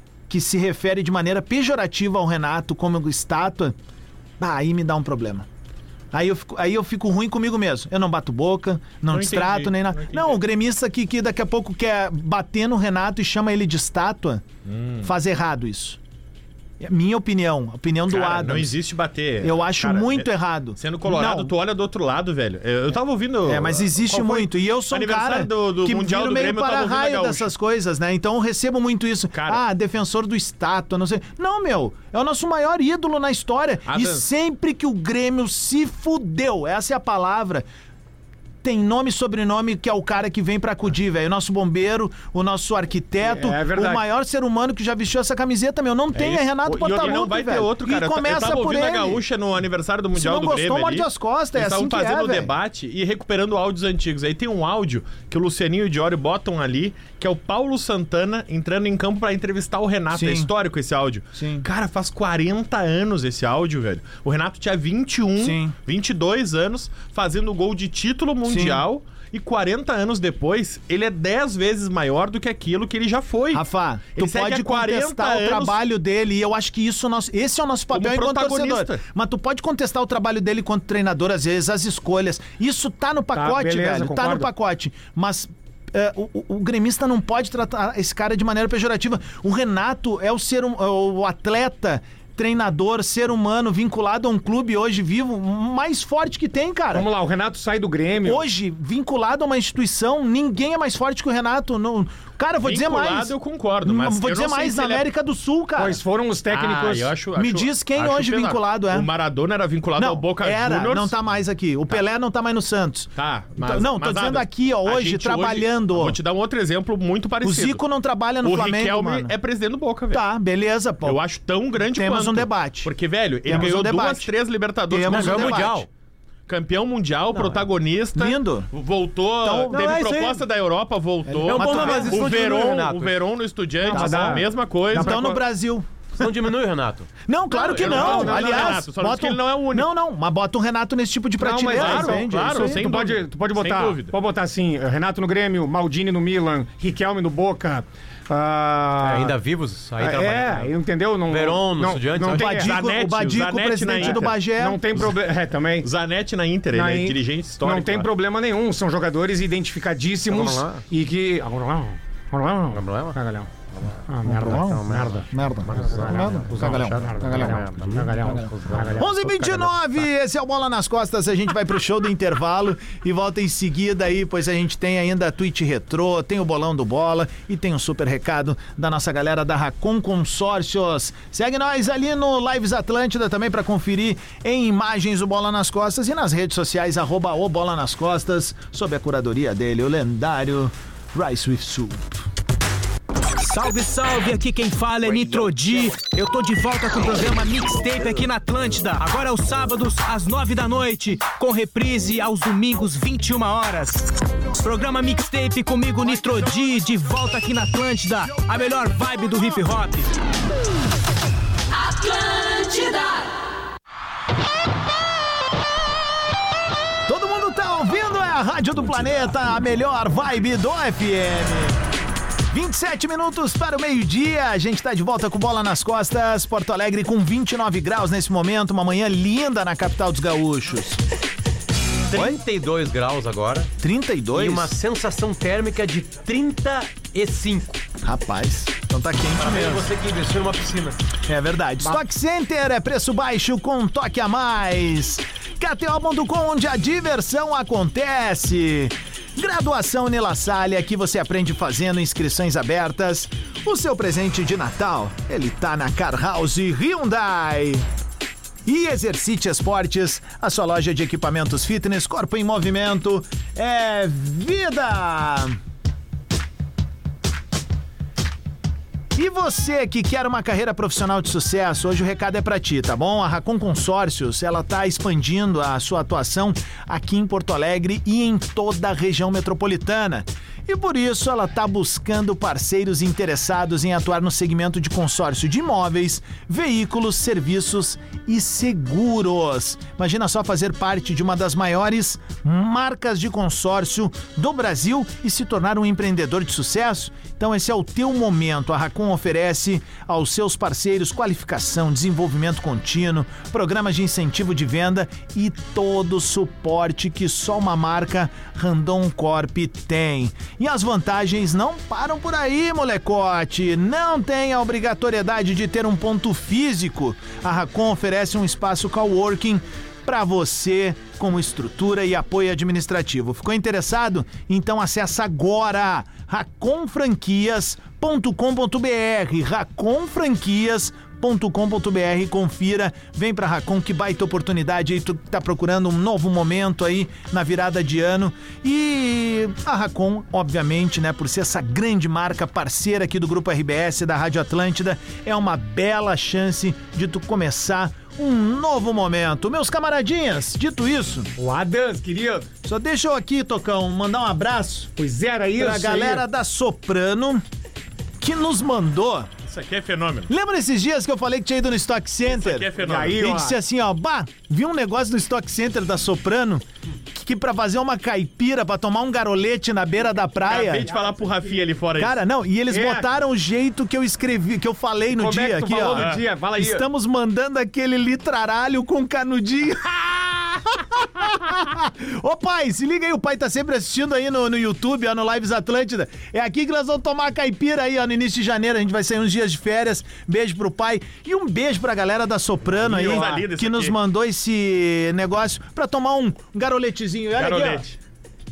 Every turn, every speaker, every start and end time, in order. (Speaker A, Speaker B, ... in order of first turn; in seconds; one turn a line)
Speaker A: 0.3-3.7
Speaker A: 4.4-5.5
Speaker A: 6.1-14.4
Speaker B: 9.1-10.4
Speaker B: 14.7-15.1
Speaker A: 15.0-16.0
Speaker A: 16.8-18.8
Speaker B: 18.1-27.5
Speaker A: 19.4-21.5
Speaker A: 23.4-37.6
Speaker B: 29.3-29.6
Speaker B: 33.9-34.2
Speaker A: 38.6-49.2
Speaker C: 43.2-44.0
Speaker B: 46.2-73.6
Speaker C: 46.6-47.2
Speaker A: 50.1-52.5
Speaker A: 60.1-60.5
Speaker A: 61.3-61.7
Speaker A: 65.4-65.7
Speaker A: 68.4-68.8
Speaker A: 73.5-97.1
Speaker B: 74.2-75.8
Speaker B: 77.9-79.0
Speaker C: 83.3-84.5
Speaker C: 96.9-98.4
Speaker A: 98.2-103.3
Speaker B: 102.6-105.1
Speaker A: 103.8-106.0
Speaker C: 105.8-107.1
Speaker B: 106.5-111.1
Speaker A: 107.3-109.1
Speaker A: 110.0-116.2
Speaker B: 113.2-117.8
Speaker A: 117.4-119.3
Speaker B: 118.4-120.2
Speaker A: 120.1-121.2
Speaker B: 121.0-125.7
Speaker A: 121.8-122.9
Speaker A: 123.5-124.3
Speaker A: 124.9-125.8
Speaker D: 125.1-125.9
Speaker B: 126.5-135.2
Speaker D: 127.3-127.6
Speaker A: 128.1-128.7
Speaker A: 129.4-130.0
Speaker D: 129.7-130.4
Speaker A: 131.2-132.3
Speaker D: 131.4-133.2
Speaker C: 133.8-135.4
Speaker A: 133.9-136.3
Speaker D: 136.2-137.1
Speaker A: 137.2-142.9
Speaker B: 137.6-139.9
Speaker C: 137.6-138.8
Speaker C: 141.4-149.3
Speaker B: 141.7-144.1
Speaker D: 149.0-150.7
Speaker C: 150.0-152.7
Speaker D: 151.3-152.6
Speaker A: 152.3-154.8
Speaker B: 152.6-154.4
Speaker C: 154.0-155.9
Speaker B: 155.8-158.1
Speaker C: 156.7-163.5
Speaker D: 160.3-160.8
Speaker D: 162.7-163.2
Speaker C: 164.1-169.7
Speaker A: 164.2-167.7
Speaker D: 164.5-165.2
Speaker D: 165.7-166.3
Speaker D: 167.3-169.0
Speaker A: 169.0-192.2
Speaker E: 193.4-210.1
Speaker E: 211.8-213.2
Speaker A: 217.1-221.8
Speaker A: 222.5-231.0
Speaker D: 232.1-233.7
Speaker A: 232.1-232.4
Speaker A: 233.8-234.7
Speaker D: 234.3-237.8
Speaker A: 238.0-239.9
Speaker D: 239.4-241.0
Speaker A: 241.3-257.9
Speaker A: 258.6-265.6
Speaker A: 269.1-351.3
Speaker C: 351.4-352.5
Speaker A: 352.6-354.9
Speaker C: 354.9-356.2
Speaker A: 355.5-357.4
Speaker A: 358.2-359.3
Speaker B: 359.4-360.3
Speaker A: 360.3-370.9
Speaker B: 362.2-363.3
Speaker C: 362.8-363.6
Speaker B: 370.4-372.2
Speaker C: 370.5-371.7
Speaker A: 372.0-397.8
Speaker C: 372.7-373.1
Speaker C: 375.1-376.8
Speaker B: 375.9-376.2
Speaker C: 392.8-393.4
Speaker B: 392.8-393.9
Speaker B: 397.4-398.0